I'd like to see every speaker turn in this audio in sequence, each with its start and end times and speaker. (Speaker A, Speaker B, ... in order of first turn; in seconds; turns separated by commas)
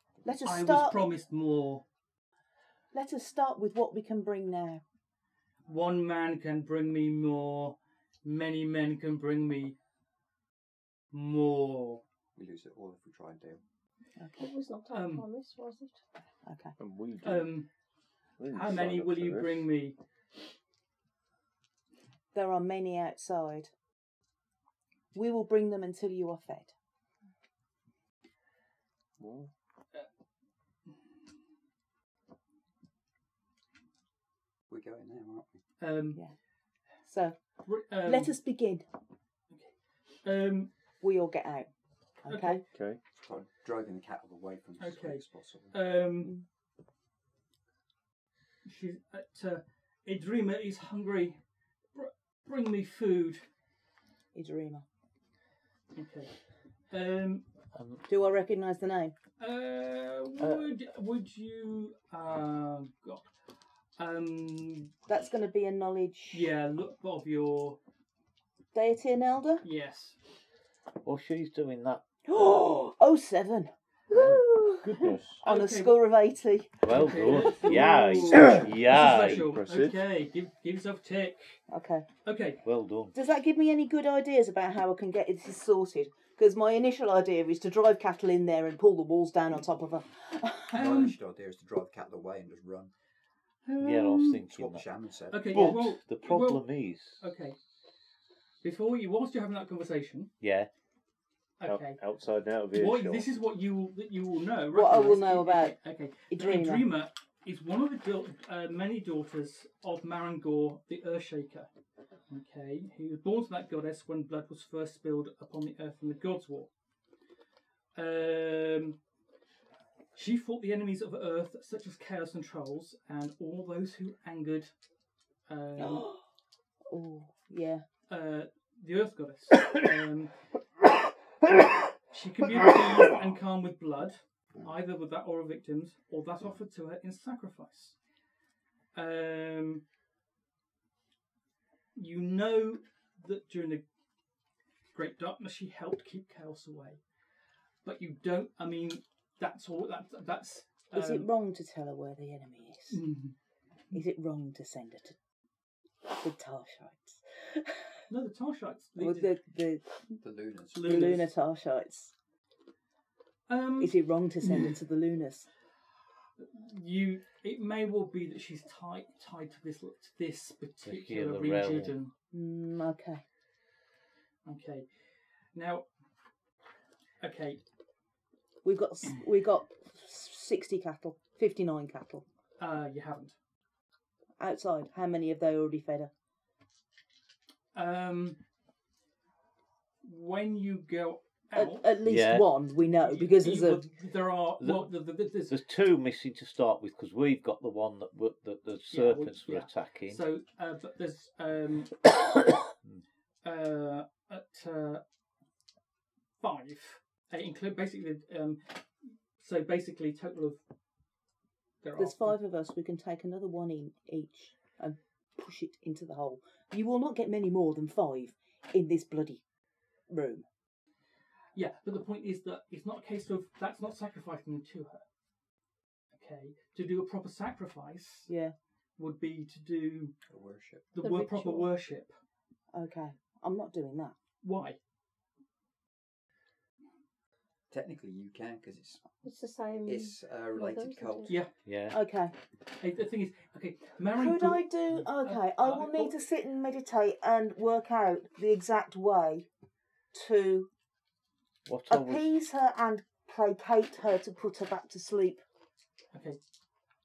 Speaker A: 0.2-1.1, Speaker B: 0.4-1.8, Speaker A: 2.9-4.8, Speaker B: 5.7-9.8, Speaker B: 11.1-12.0, Speaker C: 12.3-13.6, Speaker A: 14.2-14.5, Speaker D: 14.4-16.0, Speaker B: 14.9-15.2, Speaker A: 16.4-16.8, Speaker E: 16.8-17.6, Speaker B: 17.2-17.7, Speaker E: 18.4-19.7, Speaker B: 18.5-20.0, Speaker A: 22.3-23.7, Speaker A: 25.1-26.7, Speaker E: 29.2-29.5, Speaker C: 34.7-35.6, Speaker B: 35.8-36.2, Speaker A: 37.0-37.4, Speaker B: 37.6-38.4, Speaker A: 38.0-38.8, Speaker B: 39.5-40.7, Speaker A: 41.0-41.7, Speaker A: 42.2-42.6, Speaker B: 42.3-42.6, Speaker E: 42.7-43.0, Speaker C: 43.1-45.7, Speaker B: 44.8-46.3, Speaker B: 48.6-51.4, Speaker B: 51.9-53.4, Speaker A: 54.3-54.8, Speaker B: 55.9-56.4, Speaker B: 56.9-57.4, Speaker F: 57.7-58.0, Speaker A: 58.1-59.1, Speaker B: 59.4-63.3, Speaker F: 60.4-60.7, Speaker B: 64.0-64.9, Speaker A: 65.1-66.5, Speaker B: 66.3-67.8, Speaker A: 68.7-69.6, Speaker B: 69.6-70.2, Speaker F: 71.0-72.8, Speaker A: 72.2-78.6, Speaker E: 74.8-75.4, Speaker B: 75.4-76.0, Speaker F: 76.8-79.6, Speaker B: 76.8-81.6, Speaker E: 78.8-80.0, Speaker A: 81.7-82.0, Speaker B: 82.2-82.6, Speaker F: 82.6-83.2, Speaker A: 83.1-90.8, Speaker B: 90.7-91.2, Speaker C: 90.7-92.9, Speaker B: 93.6-94.4, Speaker F: 93.8-94.8, Speaker C: 94.5-95.8, Speaker B: 95.3-96.6, Speaker F: 95.5-97.2, Speaker B: 97.2-97.6, Speaker B: 98.6-100.3, Speaker F: 100.4-100.7, Speaker B: 101.6-102.0, Speaker E: 101.6-103.3, Speaker B: 102.7-111.7, Speaker A: 104.7-105.8, Speaker A: 106.3-106.9, Speaker B: 112.3-116.7, Speaker B: 117.9-119.0, Speaker B: 120.1-124.7, Speaker B: 125.5-126.1, Speaker A: 125.8-126.2, Speaker A: 126.9-127.8, Speaker B: 128.1-130.4, Speaker B: 132.1-137.9, Speaker B: 138.9-139.8, Speaker B: 141.9-143.8, Speaker B: 144.9-147.0, Speaker B: 147.8-151.3, Speaker A: 150.9-153.0, Speaker B: 152.9-153.3, Speaker A: 153.9-155.1, Speaker A: 156.1-157.9, Speaker B: 158.1-159.3, Speaker A: 159.0-160.2, Speaker C: 160.2-161.0, Speaker B: 160.7-161.3, Speaker A: 160.8-162.1, Speaker B: 163.5-164.7, Speaker A: 163.8-165.5, Speaker B: 166.4-172.1, Speaker F: 170.8-171.9, Speaker A: 172.3-173.2, Speaker B: 174.4-174.9, Speaker B: 175.5-175.8, Speaker B: 177.2-177.6, Speaker A: 178.6-182.2, Speaker B: 182.6-183.3, Speaker A: 184.4-186.1, Speaker B: 187.7-188.4, Speaker B: 190.0-191.8, Speaker A: 191.5-193.8, Speaker F: 192.0-192.5, Speaker B: 193.0-195.6, Speaker F: 194.6-194.9, Speaker F: 195.5-200.2, Speaker B: 198.9-202.1, Speaker B: 203.4-205.0, Speaker B: 206.4-208.8, Speaker B: 209.4-210.6, Speaker B: 211.8-212.4, Speaker A: 211.9-219.4, Speaker A: 220.1-220.4, Speaker B: 221.5-225.0, Speaker B: 226.1-228.3, Speaker A: 228.3-228.5, Speaker B: 229.0-230.1, Speaker C: 230.3-230.8, Speaker B: 230.9-232.1, Speaker D: 231.0-231.7, Speaker A: 232.7-234.1, Speaker B: 234.4-234.8, Speaker C: 237.7-239.0, Speaker D: 239.2-241.4, Speaker C: 239.8-241.4, Speaker F: 241.6-242.0, Speaker A: 241.9-242.3, Speaker B: 242.8-246.1, Speaker A: 244.1-249.5, Speaker A: 250.1-250.7, Speaker F: 251.7-252.3, Speaker A: 251.9-255.4, Speaker B: 256.1-256.4